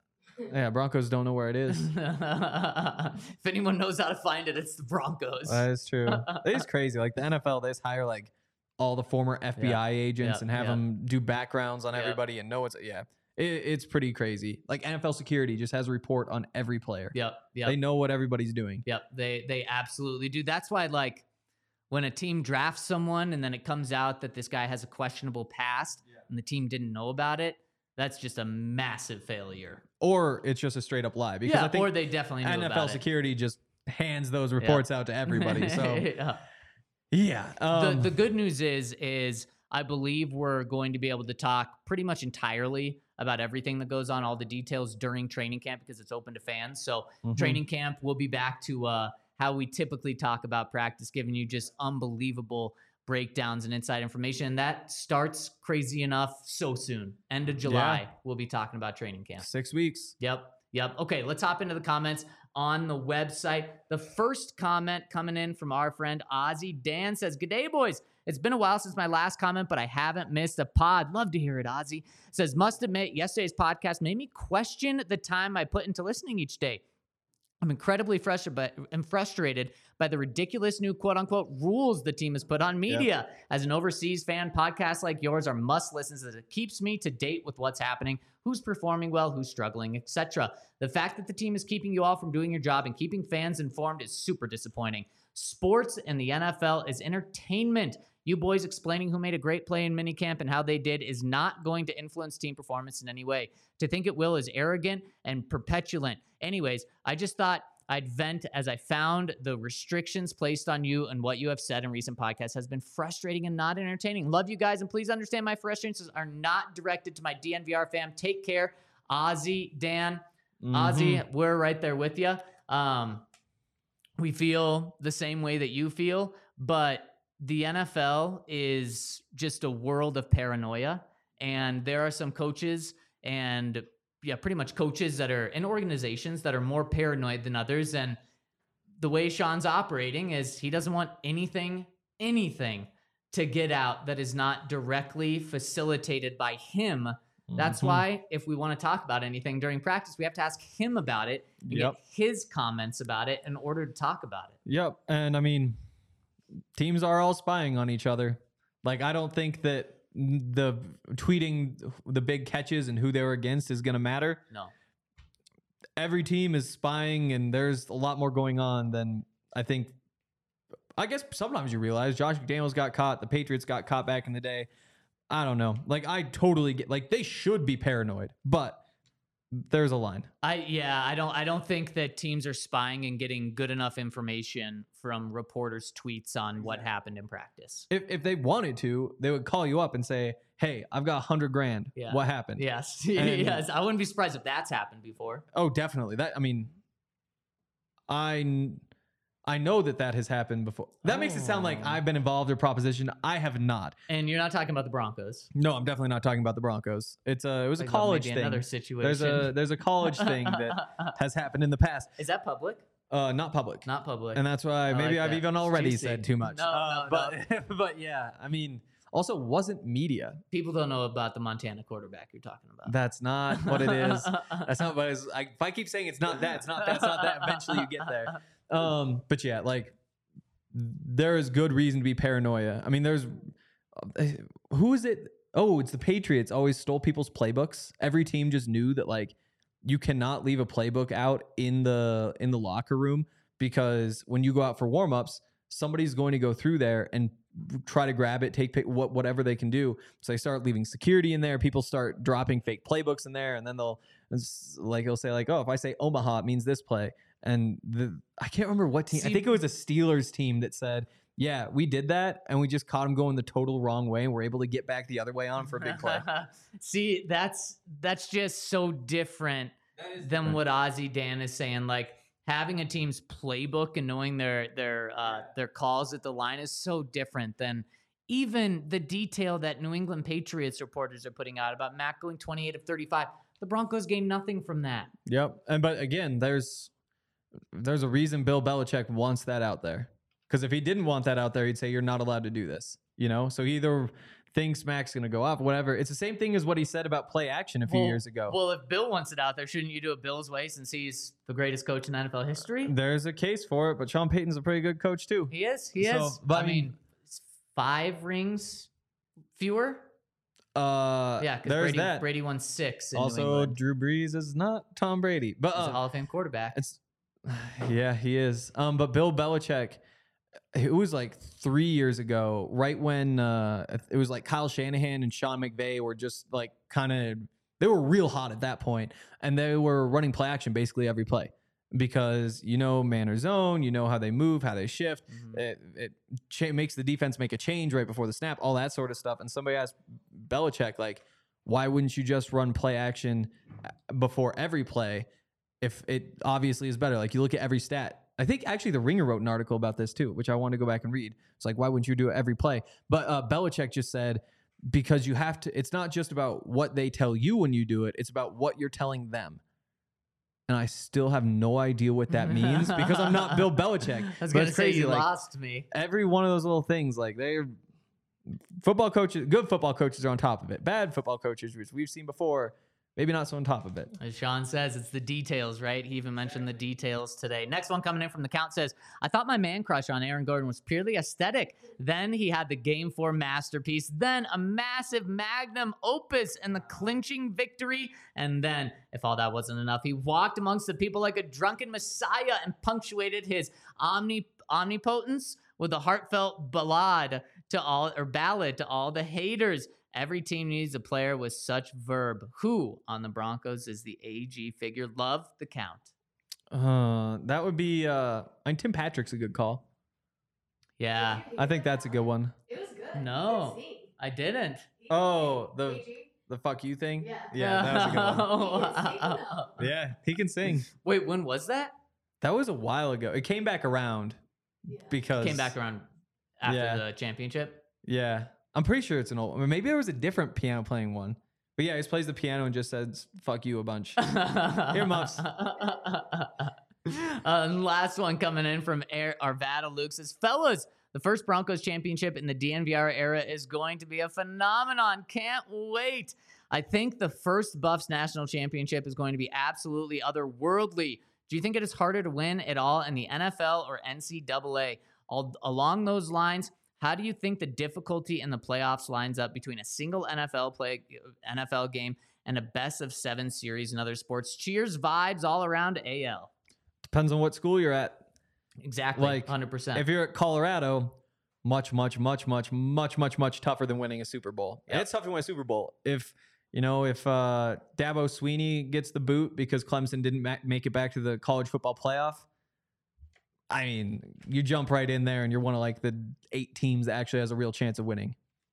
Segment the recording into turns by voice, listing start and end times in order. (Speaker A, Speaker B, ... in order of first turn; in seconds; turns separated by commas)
Speaker A: 0.5-1.9, Speaker B: 1.7-6.7, Speaker A: 5.5-18.8, Speaker B: 9.6-10.8, Speaker B: 11.9-12.2, Speaker B: 17.1-17.8, Speaker B: 18.9-21.2, Speaker B: 21.9-29.8, Speaker A: 30.0-36.1, Speaker B: 31.4-33.0, Speaker B: 34.6-36.4, Speaker A: 37.1-38.1, Speaker B: 37.7-59.5, Speaker A: 47.2-47.6, Speaker A: 57.6-58.0, Speaker A: 59.4-60.1, Speaker B: 60.2-76.8, Speaker B: 77.6-123.2, Speaker A: 120.6-121.2, Speaker B: 124.2-138.2, Speaker B: 139.0-154.6, Speaker A: 147.5-148.0, Speaker A: 151.6-152.0, Speaker A: 154.7-155.8, Speaker A: 156.8-164.4, Speaker A: 166.0-169.9, Speaker A: 171.0-174.7, Speaker A: 175.3-178.8, Speaker A: 179.5-180.3, Speaker B: 180.4-187.9, Speaker A: 187.9-192.7, Speaker B: 192.0-195.4, Speaker A: 193.2-193.7, Speaker A: 195.5-196.7, Speaker A: 198.1-198.8, Speaker A: 199.5-203.9, Speaker B: 201.0-202.0, Speaker B: 204.1-205.5, Speaker A: 205.5-212.1, Speaker B: 207.8-211.1, Speaker B: 212.2-212.8, Speaker A: 213.1-220.4, Speaker B: 213.9-217.4, Speaker B: 220.5-222.9, Speaker A: 222.8-229.9, Speaker B: 223.5-224.7, Speaker B: 226.5-228.4, Speaker A: 230.7-266.3, Speaker B: 259.1-259.6, Speaker B: 265.6-285.1, Speaker A: 270.0-270.6, Speaker A: 285.3-286.9, Speaker A: 287.7-298.6, Speaker B: 297.9-302.9, Speaker A: 302.8-306.9, Speaker B: 305.5-308.9, Speaker B: 309.6-310.1, Speaker A: 310.8-312.3, Speaker B: 311.4-313.8, Speaker A: 313.1-316.0, Speaker B: 315.7-316.8, Speaker A: 316.7-320.0, Speaker A: 320.7-345.3, Speaker B: 335.3-335.6, Speaker A: 345.8-359.6, Speaker A: 360.7-365.3, Speaker B: 362.3-363.7, Speaker B: 364.2-365.9, Speaker A: 365.9-367.7, Speaker A: 368.5-374.1, Speaker B: 374.2-406.1, Speaker A: 406.7-409.8, Speaker B: 411.0-411.4, Speaker C: 411.1-414.1, Speaker A: 411.6-412.5, Speaker B: 413.1-414.9, Speaker C: 415.0-416.3, Speaker A: 415.1-418.5, Speaker C: 417.2-419.5, Speaker B: 417.6-419.9, Speaker A: 419.8-420.9, Speaker B: 421.0-421.9, Speaker A: 422.4-424.4, Speaker C: 424.9-425.1, Speaker A: 425.0-425.7, Speaker B: 425.4-426.1, Speaker B: 426.6-427.9, Speaker A: 426.7-427.0, Speaker A: 428.0-434.4, Speaker B: 434.2-466.5, Speaker A: 434.9-435.4, Speaker A: 467.1-468.2, Speaker B: 468.8-470.1, Speaker A: 469.2-482.5, Speaker A: 483.7-488.4